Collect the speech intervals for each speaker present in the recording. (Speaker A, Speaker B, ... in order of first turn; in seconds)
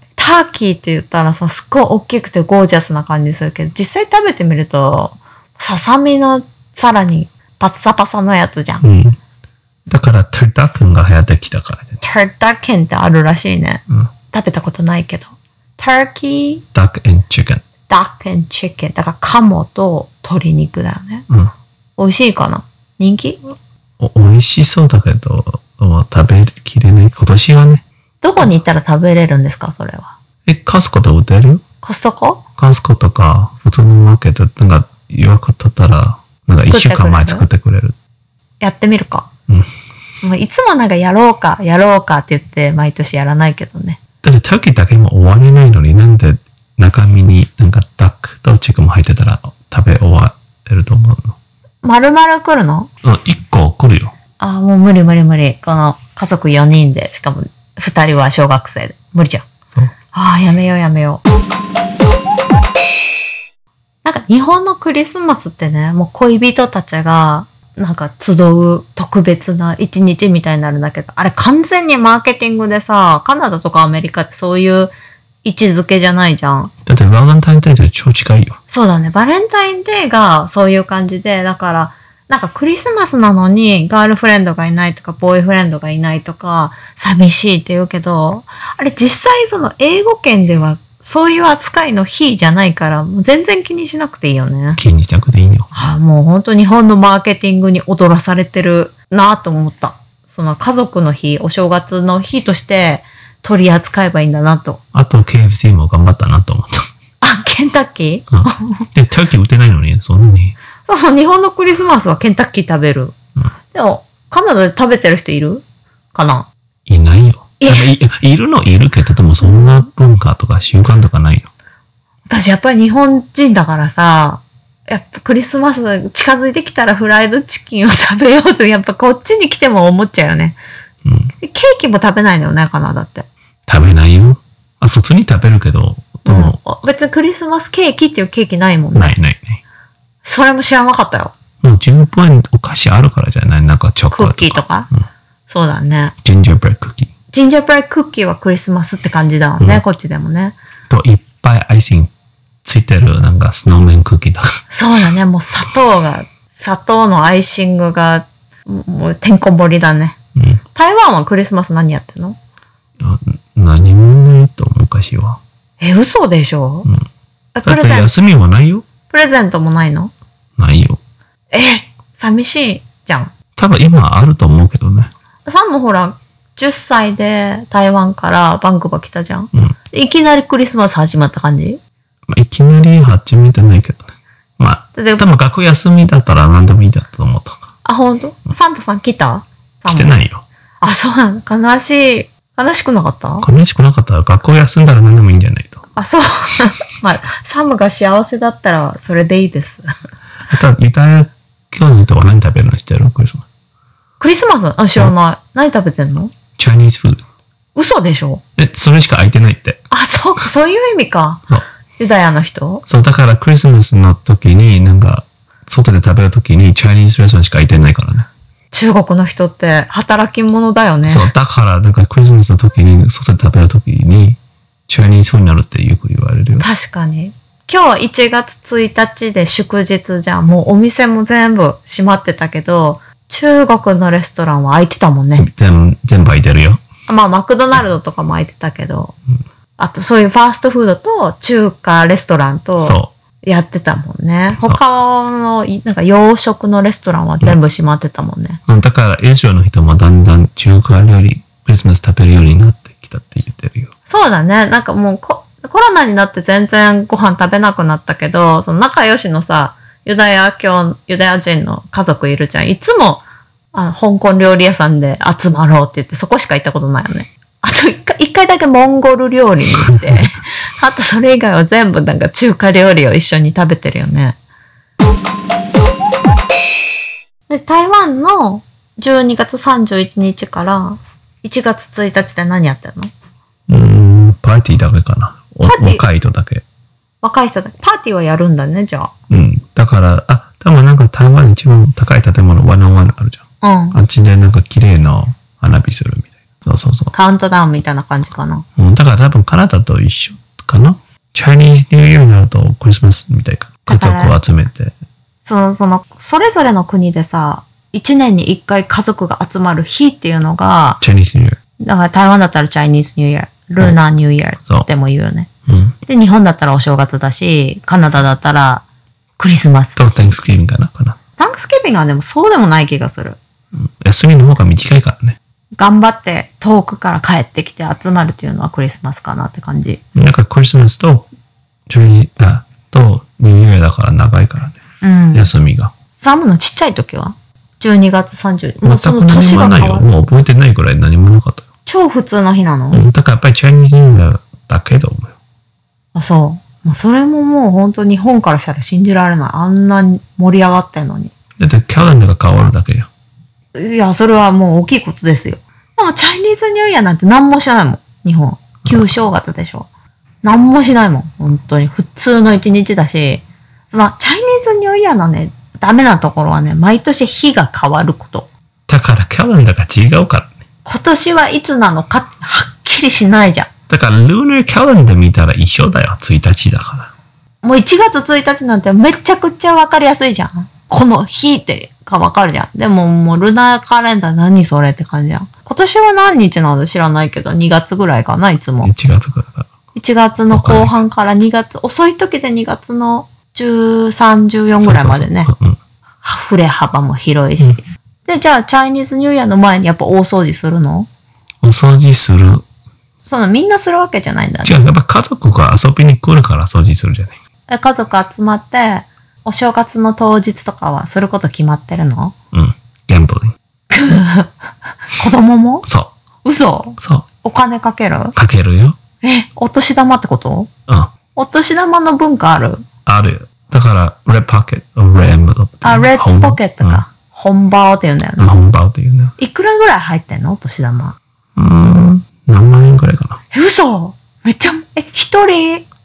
Speaker A: 0.2-8.8, 12.0-16.6, 17.9-21.3, 22.0-23.6, 28.2-30.1, 31.8-32.4, 36.5-37.5, 38.6-39.3, 40.2-44.0, 51.8-52.9, 54.4-59.5, 60.1-61.2, 64.0-76.7, 78.7-94.8, 95.7-104.8, 107.2-108.8, 110.9-113.1, 113.7-116.5, 117.6-117.9, 122.3-130.6, 131.4-133.3, 136.2-139.2, 140.2-141.3, 144.1-144.9, 145.5-146.1, 147.3-150.6, 154.7-160.2, 160.7-162.4, 165.8-166.9, 167.6-168.1, 169.1-170.1, 171.5-173.3, 175.5-181.8, 184.9-185.2, 187.8-190.2, 190.8-193.5, 196.0-199.9, 204.2-206.3, 207.8-208.4, 209.9-211.4, 212.0-212.8, 218.7-221.3, 226.6-235.5, 237.1-239.2, 239.8-248.6, 254.1-274.4, 277.5-283.1, 285.6-286.0, 287.2-289.1, 293.6-294.0, 297.1-298.6, 303.9-304.4, 305.4-311.0, 311.8-315.5, 316.0-318.9, 319.4-320.4, 321.4-323.4, 325.8-330.0, 335.0-335.5, 336.2-340.1, 341.9-343.1, 346.1-351.3, 353.8-359.9, 360.4-368.5, 370.9-373.7, 377.6-388.9, 389.9-395.5, 396.2-401.1, 403.3-404.9, 407.7-412.3, 413.9-414.5, 415.1-415.9, 416.4-418.4, 419.2-420.7, 421.4-422.9, 425.8-428.5, 429.4-431.2, 433.5-435.9
Speaker B: 8.8-9.2, 9.9-12.0, 16.7-17.6, 24.0-27.9, 30.5-31.6, 32.6-38.0, 44.2-51.4, 53.0-54.1, 76.9-78.6, 94.8-95.7, 104.9-106.9, 108.3-110.6, 116.9-121.5, 131.1-131.3, 133.7-136.6, 138.9-139.6, 141.6-145.0, 146.2-147.1, 150.9-152.1, 152.6-154.5, 160.4-160.6, 163.0-165.4, 167.7-168.8, 170.6-171.0, 173.6-175.1, 182.3-187.6, 189.9-190.4, 193.4-195.8, 200.5-203.4, 206.6-207.2, 208.6-209.8, 212.9-218.3, 221.1-226.7, 235.4-236.8, 242.8-243.1, 248.7-253.9, 283.7-286.6, 289.3-293.4, 293.9-297.1, 298.8-304.9, 311.0-311.6, 315.7-316.0, 320.0-321.2, 323.8-325.4, 330.1-331.3, 331.9-334.8, 335.3-335.9, 338.8-341.6, 342.9-345.4, 351.6-353.1, 368.9-370.5, 373.9-377.1, 388.8-389.7, 390.5-390.9, 394.8-395.8, 401.6-402.6, 404.6-407.4, 412.5-413.6, 415.9-416.1, 417.0-417.3, 418.4-419.0, 423.1-427.0, 428.4-429.3, 431.6-433.4